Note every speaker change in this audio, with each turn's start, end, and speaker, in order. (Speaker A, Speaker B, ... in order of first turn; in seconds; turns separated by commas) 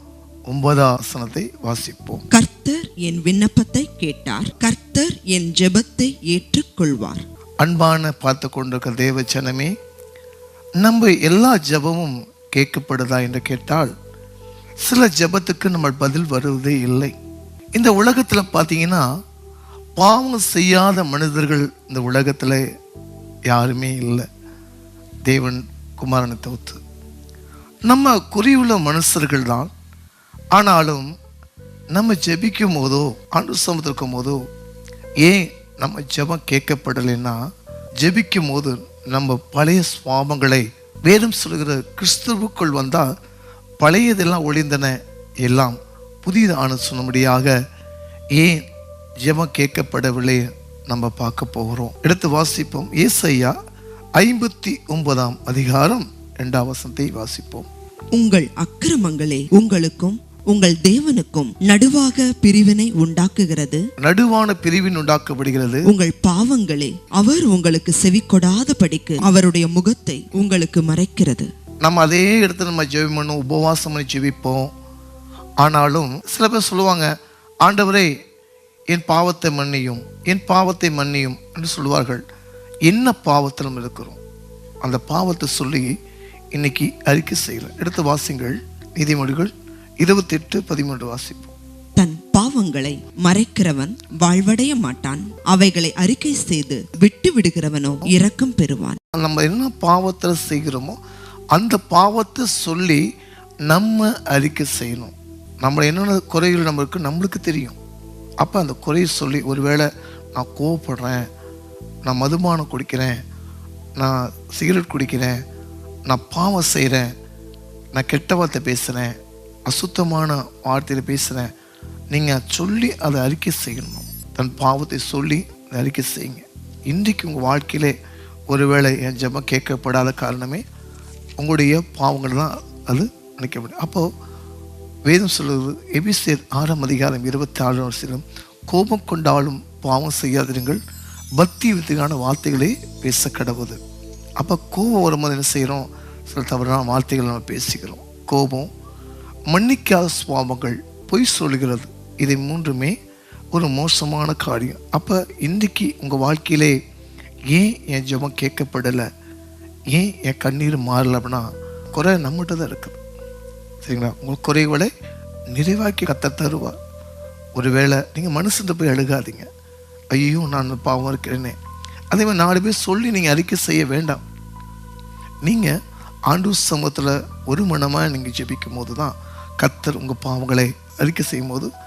Speaker A: 0.5-2.2, Speaker B: 2.3-7.2, Speaker A: 7.6-9.7, Speaker A: 10.8-13.9, Speaker A: 14.8-17.1, Speaker A: 17.7-19.1, Speaker A: 20.0-22.6, Speaker A: 23.5-24.2, Speaker A: 25.2-26.8, Speaker A: 27.9-29.7, Speaker A: 30.5-31.1, Speaker A: 31.9-34.4, Speaker A: 35.2-37.4, Speaker A: 38.0-43.1, Speaker A: 43.8-47.5, Speaker A: 48.3-48.6, Speaker A: 49.2-53.5, Speaker A: 54.2-57.7, Speaker B: 58.1-63.8, Speaker A: 64.0-65.9, Speaker B: 65.8-71.5, Speaker A: 71.8-74.7, Speaker A: 75.6-77.1, Speaker A: 77.6-78.1, Speaker A: 78.9-82.2, Speaker A: 82.8-84.2, Speaker A: 84.8-85.9, Speaker A: 86.5-91.5, Speaker B: 92.0-99.0, Speaker A: 99.2-101.0, Speaker A: 101.5-103.0, Speaker A: 103.7-107.8, Speaker A: 108.4-111.2, Speaker A: 112.0-113.1, Speaker A: 114.0-115.4, Speaker A: 116.1-117.1, Speaker A: 117.9-119.1, Speaker A: 119.7-121.5, Speaker A: 122.1-127.9, Speaker A: 128.5-130.6, Speaker A: 131.4-134.1, Speaker A: 135.1-140.8, Speaker A: 141.4-143.8, Speaker A: 144.4-148.7, Speaker A: 149.5-152.9, Speaker A: 153.5-156.8, Speaker A: 157.5-159.0, Speaker A: 159.9-163.0, Speaker A: 163.8-164.9, Speaker A: 165.5-166.7, Speaker A: 167.5-169.5, Speaker A: 170.1-171.6, Speaker A: 172.1-174.2, Speaker A: 175.4-175.7, Speaker A: 176.3-181.7